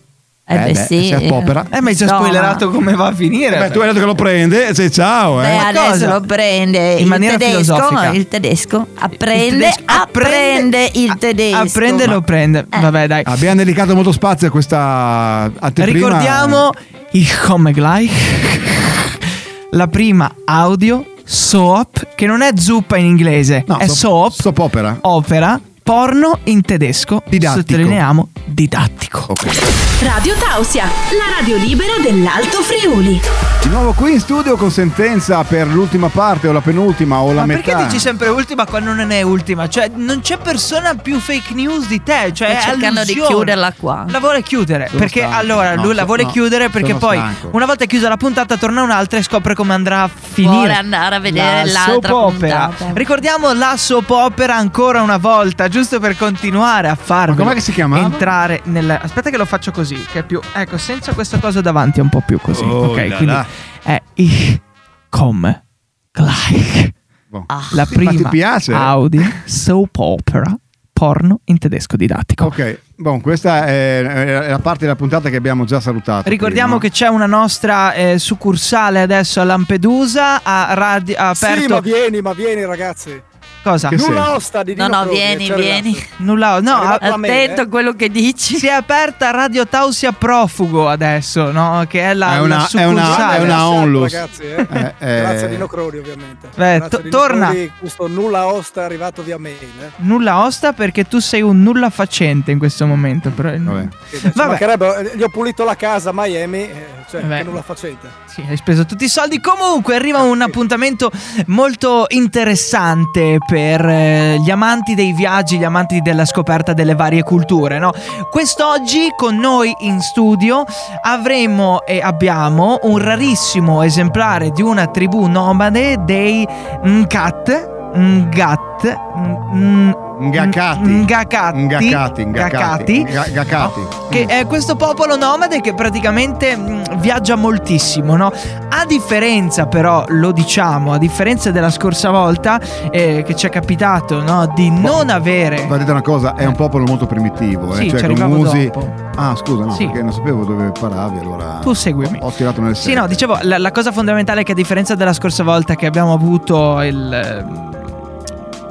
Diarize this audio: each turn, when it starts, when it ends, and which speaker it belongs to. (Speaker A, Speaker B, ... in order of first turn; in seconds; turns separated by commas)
Speaker A: 0.5-2.6, Speaker B: 0.5-1.7, Speaker C: 1.7-3.8, Speaker B: 3.5-5.7, Speaker A: 5.4-12.1, Speaker C: 5.5-6.2, Speaker C: 7.0-8.2, Speaker C: 9.3-13.3, Speaker B: 13.2-16.7, Speaker C: 15.8-19.1, Speaker C: 19.7-24.4, Speaker B: 23.7-25.0, Speaker C: 25.0-29.3, Speaker B: 27.3-28.0, Speaker B: 29.3-29.6, Speaker D: 30.0-33.2, Speaker B: 33.6-38.1, Speaker C: 37.3-43.5, Speaker A: 42.5-44.1, Speaker C: 44.1-65.6, Speaker B: 44.9-47.5, Speaker A: 50.4-53.0, Speaker B: 57.3-58.3, Speaker B: 62.5-63.5, Speaker C: 66.1-66.9, Speaker B: 67.3-69.3, Speaker A: 67.5-67.9, Speaker C: 67.7-72.5, Speaker B: 72.4-76.8, Speaker C: 76.2-81.8, Speaker E: 81.3-83.2, Speaker C: 83.6-84.0, Speaker B: 83.9-84.3, Speaker E: 83.9-86.0, Speaker A: 84.7-86.1, Speaker C: 86.2-87.1, Speaker E: 86.7-87.6, Speaker A: 87.0-88.7, Speaker C: 88.5-93.7, Speaker B: 92.2-95.7, Speaker E: 93.0-99.9, Speaker C: 96.6-97.6, Speaker C: 100.0-104.6, Speaker B: 103.6-103.9, Speaker E: 104.1-108.1, Speaker C: 107.2-107.6, Speaker C: 108.3-145.8, Speaker E: 110.2-110.5, Speaker B: 130.2-134.3, Speaker B: 144.8-153.2, Speaker C: 147.7-148.9, Speaker C: 149.7-150.0, Speaker C: 151.6-152.2, Speaker C: 152.8-157.9